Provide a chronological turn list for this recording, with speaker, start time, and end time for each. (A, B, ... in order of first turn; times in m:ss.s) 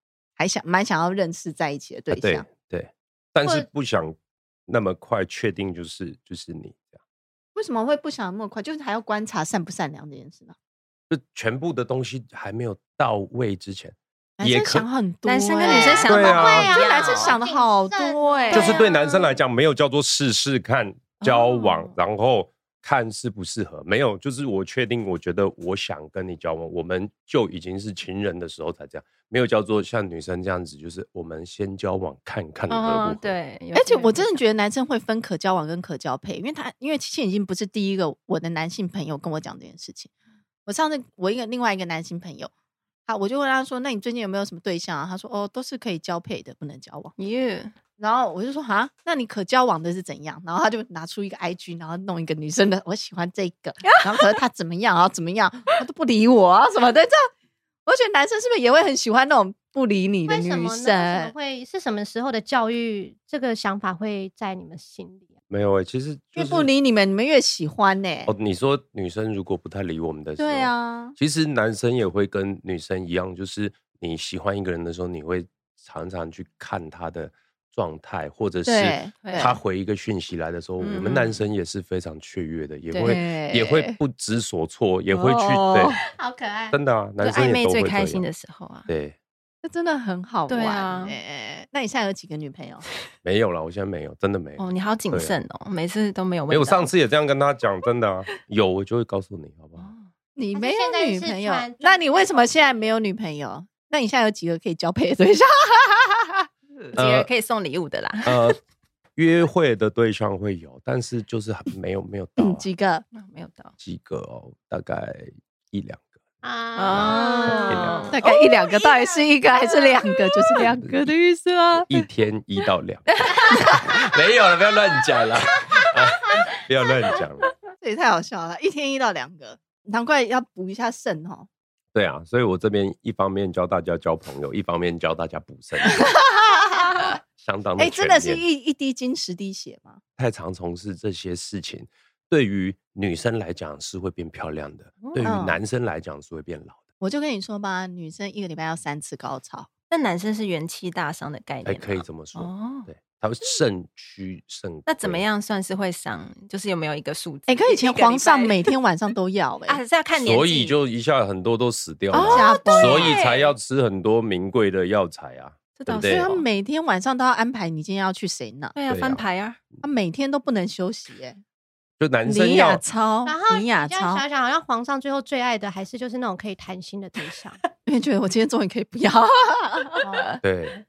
0:00.4-0:02.5 A
0:02.1-0:07.0 B
0:03.4-0:03.7 C
0:07.6-0:10.6 A
0:11.1-0:14.9 B
0:14.4-0:19.0 A
0:15.2-0:17.4 D
0:15.6-0:18.9 C
0:16.1-0:16.7 B
0:18.5-0:33.3 B
0:21.2-0:22.0 D
0:32.7-0:34.4 D
0:33.8-0:40.1 A
0:40.7-0:42.5 A
0:43.1-0:47.2 A
0:47.2-0:47.7 D
0:48.0-0:57.3 A
0:53.8-0:54.3 D
0:57.9-1:01.3 A
1:00.2-1:05.3 C
1:05.5-1:06.7 B
1:06.4-1:08.3 A
1:08.3-1:26.0 B
1:10.4-1:11.2 A
1:18.7-1:19.6 A
1:19.2-1:19.6 D
1:20.8-1:21.4 D
1:22.9-1:23.2 D
1:23.0-1:24.0 A
1:25.1-1:26.0 A
1:26.1-1:26.8 C
1:26.7-1:28.2 B
1:27.2-1:28.9 D
1:28.9-1:29.2 B
1:29.6-1:32.8 A
1:30.5-1:31.2 D
1:33.2-1:35.4 B
1:34.6-1:36.9 D
1:36.5-1:39.9 B
1:39.8-1:40.1 D
1:40.4-1:46.5 A
1:40.5-1:42.9 C
1:47.0-1:47.3 B
1:47.0-1:48.6 D
1:48.3-1:48.6 B
1:49.2-1:52.7 B
1:52.4-1:53.0 A
1:53.1-1:53.7 D
1:53.8-1:56.0 B
1:56.4-1:58.1 C
1:56.8-1:58.5 D
1:56.9-1:58.1 B
1:57.1-2:02.0 A
2:01.9-2:07.4 B
2:03.1-2:04.0 A
2:07.8-2:11.5 A
2:11.9-2:16.0 B
2:15.9-2:17.2 A
2:17.4-2:18.4 B
2:17.8-2:20.0 A
2:20.2-2:26.8 B
2:25.0-2:25.3 D
2:25.2-2:25.6 A
2:27.0-2:29.7 A
2:29.9-2:32.9 D
2:31.7-2:35.2 B
2:34.9-2:38.7 D
2:37.5-2:39.8 A
2:39.7-2:40.7 D
2:40.2-2:46.4 B
2:42.1-2:43.5 D
2:42.1-2:43.2 A
2:45.8-2:46.4 D
2:46.1-2:48.8 A
2:48.7-2:49.6 D
2:48.9-2:49.2 B
2:49.8-2:51.4 A
2:52.0-2:52.8 B
2:52.3-2:54.2 A
2:53.3-2:57.6 C
2:57.9-3:00.4 A
3:00.4-3:00.8 B